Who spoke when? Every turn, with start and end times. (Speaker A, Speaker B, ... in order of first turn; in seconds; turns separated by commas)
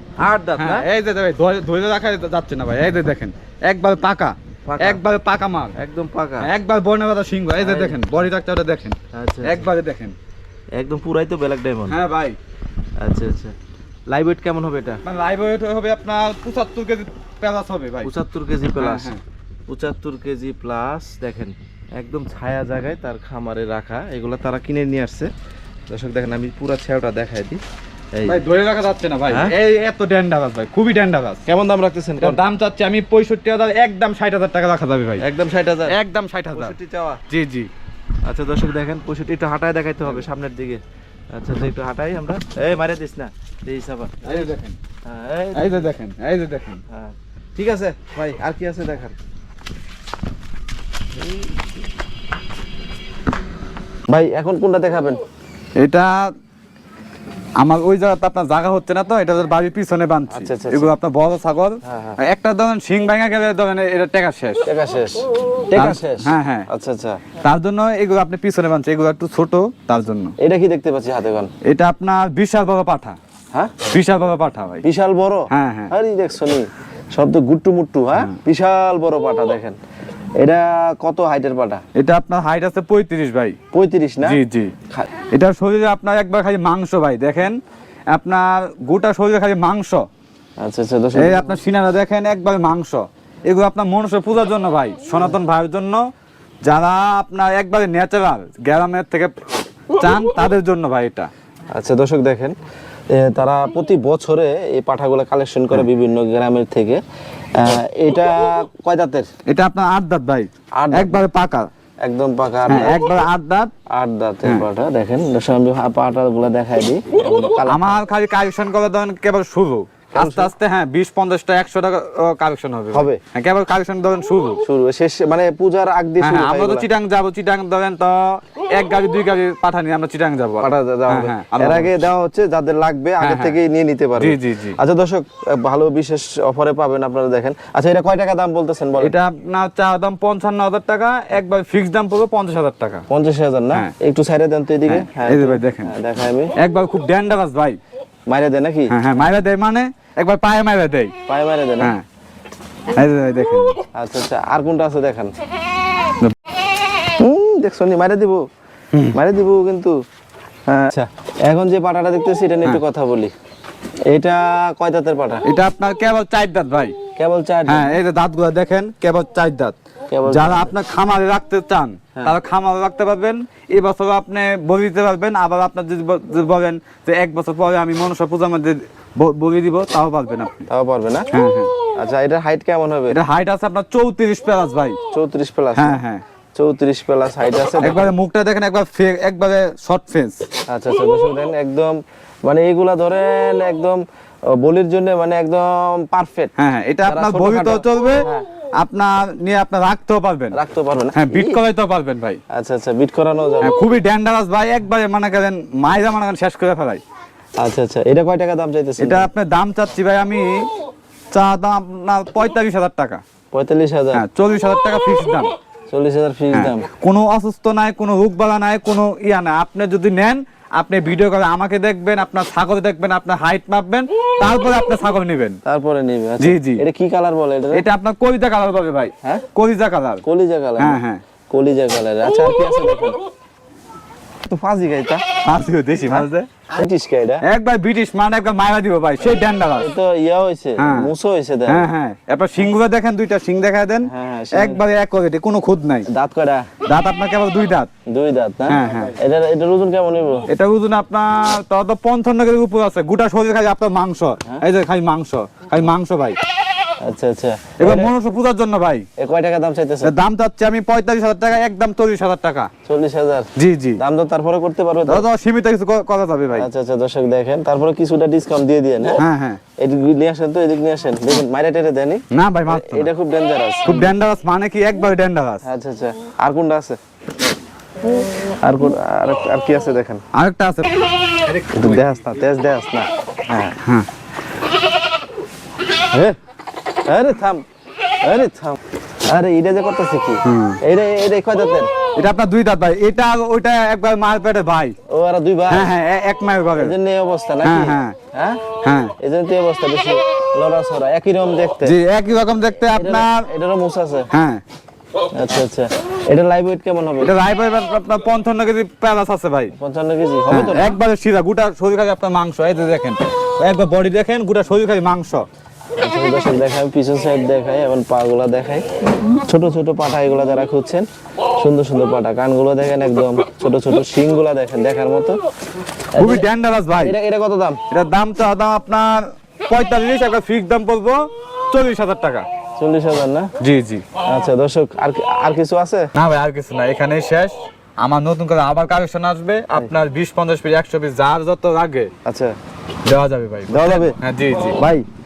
Speaker A: 0.2-0.9, Speaker B: 0.6-5.8, Speaker A: 4.7-5.0, Speaker A: 5.8-6.5, Speaker B: 6.4-10.2, Speaker A: 7.6-8.0, Speaker A: 9.1-9.7, Speaker A: 10.8-12.0, Speaker B: 11.9-12.4, Speaker A: 13.0-13.6, Speaker A: 14.1-15.0, Speaker B: 15.0-18.1, Speaker A: 18.1-19.1, Speaker B: 18.8-19.2, Speaker A: 19.7-25.3, Speaker A: 25.9-27.6, Speaker A: 28.1-28.4, Speaker B: 28.3-31.4, Speaker A: 29.3-29.6, Speaker A: 31.5-32.4, Speaker B: 32.2-35.2, Speaker A: 35.2-36.0, Speaker B: 35.9-36.8, Speaker A: 36.5-37.2, Speaker B: 37.3-37.7, Speaker A: 38.2-40.8, Speaker A: 41.3-44.5, Speaker B: 44.2-44.8, Speaker A: 45.1-45.9, Speaker B: 45.5-46.8, Speaker A: 46.9-49.2, Speaker A: 54.1-55.2, Speaker B: 55.8-56.3, Speaker B: 57.6-64.7, Speaker A: 60.3-60.9, Speaker A: 61.8-62.2, Speaker A: 64.7-67.2, Speaker B: 65.8-66.7, Speaker B: 67.4-70.3, Speaker A: 70.4-71.5, Speaker B: 71.7-73.2, Speaker B: 73.9-74.8, Speaker A: 74.8-79.8, Speaker B: 75.5-75.9, Speaker A: 80.4-81.8, Speaker B: 82.0-83.6, Speaker A: 83.7-84.4, Speaker B: 84.2-84.7, Speaker B: 85.3-87.6, Speaker B: 88.1-90.0, Speaker A: 90.6-91.5, Speaker B: 91.1-96.0, Speaker B: 96.7-99.3, Speaker B: 99.9-101.3, Speaker A: 101.7-102.6, Speaker A: 103.1-107.0, Speaker A: 107.6-109.3, Speaker B: 109.5-111.7, Speaker A: 110.8-111.2, Speaker A: 112.0-113.0, Speaker B: 112.7-113.7, Speaker A: 113.9-118.0, Speaker B: 117.7-124.6, Speaker A: 120.2-120.5, Speaker A: 122.9-123.2, Speaker A: 124.6-126.9, Speaker B: 126.2-131.9, Speaker A: 130.6-139.1, Speaker B: 133.2-133.6, Speaker B: 134.2-134.8, Speaker B: 139.0-143.1, Speaker A: 143.1-146.6, Speaker B: 144.9-145.9, Speaker B: 146.6-147.8, Speaker A: 148.3-148.9, Speaker B: 148.9-151.1, Speaker A: 151.3-151.9, Speaker B: 151.8-152.1, Speaker B: 152.9-153.8, Speaker A: 153.9-155.3, Speaker A: 157.2-158.4, Speaker A: 159.1-160.0, Speaker A: 160.7-163.3, Speaker A: 164.1-165.4, Speaker B: 165.4-166.9, Speaker A: 167.2-168.0, Speaker B: 167.7-169.8, Speaker A: 170.1-170.7, Speaker B: 170.3-180.7, Speaker A: 180.7-181.3, Speaker B: 181.3-181.7, Speaker A: 182.0-183.2, Speaker B: 183.1-185.0, Speaker A: 185.1-186.0, Speaker B: 185.8-186.2, Speaker A: 186.6-188.1, Speaker B: 187.8-190.4, Speaker A: 190.7-194.0, Speaker A: 194.5-196.5, Speaker B: 196.6-198.3, Speaker A: 197.1-198.4, Speaker B: 198.8-200.6, Speaker A: 200.5-201.6, Speaker B: 201.1-202.4, Speaker A: 202.5-203.8, Speaker B: 203.6-207.0, Speaker A: 207.6-209.3, Speaker B: 209.0-210.7, Speaker B: 211.3-213.2, Speaker A: 213.5-214.2, Speaker B: 214.1-215.5, Speaker A: 215.9-216.9, Speaker B: 216.5-225.6, Speaker A: 225.7-227.8, Speaker B: 226.4-226.8, Speaker B: 227.7-230.2, Speaker A: 230.2-231.0, Speaker B: 230.8-231.2, Speaker A: 231.5-233.2, Speaker A: 234.4-235.2, Speaker B: 235.5-236.7, Speaker A: 236.1-237.4, Speaker B: 237.4-239.9, Speaker A: 239.8-241.8, Speaker B: 240.8-241.1, Speaker B: 241.7-246.1, Speaker A: 244.1-244.8, Speaker A: 246.1-246.7, Speaker B: 246.8-247.9, Speaker A: 248.1-250.5, Speaker B: 248.7-249.1, Speaker B: 250.5-256.4, Speaker A: 257.0-258.1, Speaker B: 257.8-259.1, Speaker A: 259.2-260.1, Speaker B: 260.0-262.7, Speaker A: 262.9-265.3, Speaker B: 263.6-264.0, Speaker B: 265.1-266.7, Speaker A: 266.6-269.2, Speaker B: 269.2-269.6, Speaker A: 269.8-274.1, Speaker B: 272.3-273.1, Speaker B: 273.9-275.6, Speaker A: 275.6-277.0, Speaker A: 278.2-280.2, Speaker B: 280.3-280.9, Speaker B: 281.5-282.0, Speaker A: 281.7-283.8, Speaker B: 283.8-284.1, Speaker A: 287.1-287.6, Speaker A: 288.2-291.9, Speaker B: 290.4-290.8, Speaker B: 292.2-294.9, Speaker A: 295.1-295.9, Speaker B: 295.7-296.9, Speaker A: 296.8-298.6, Speaker B: 297.6-298.2, Speaker B: 298.8-299.1, Speaker A: 299.2-301.9, Speaker B: 301.8-303.5, Speaker A: 302.9-304.3, Speaker B: 304.3-304.6, Speaker A: 305.3-307.3, Speaker B: 307.2-309.8, Speaker A: 309.8-311.0, Speaker B: 310.5-315.4, Speaker A: 316.0-321.1, Speaker A: 321.6-325.4, Speaker A: 326.1-326.5, Speaker B: 326.2-327.1, Speaker A: 327.0-327.8, Speaker B: 327.9-331.2, Speaker B: 331.7-332.5, Speaker A: 332.8-333.5, Speaker B: 333.6-334.1, Speaker A: 334.2-336.1, Speaker B: 336.1-342.1, Speaker A: 342.2-342.5, Speaker B: 343.1-344.8, Speaker A: 343.7-345.0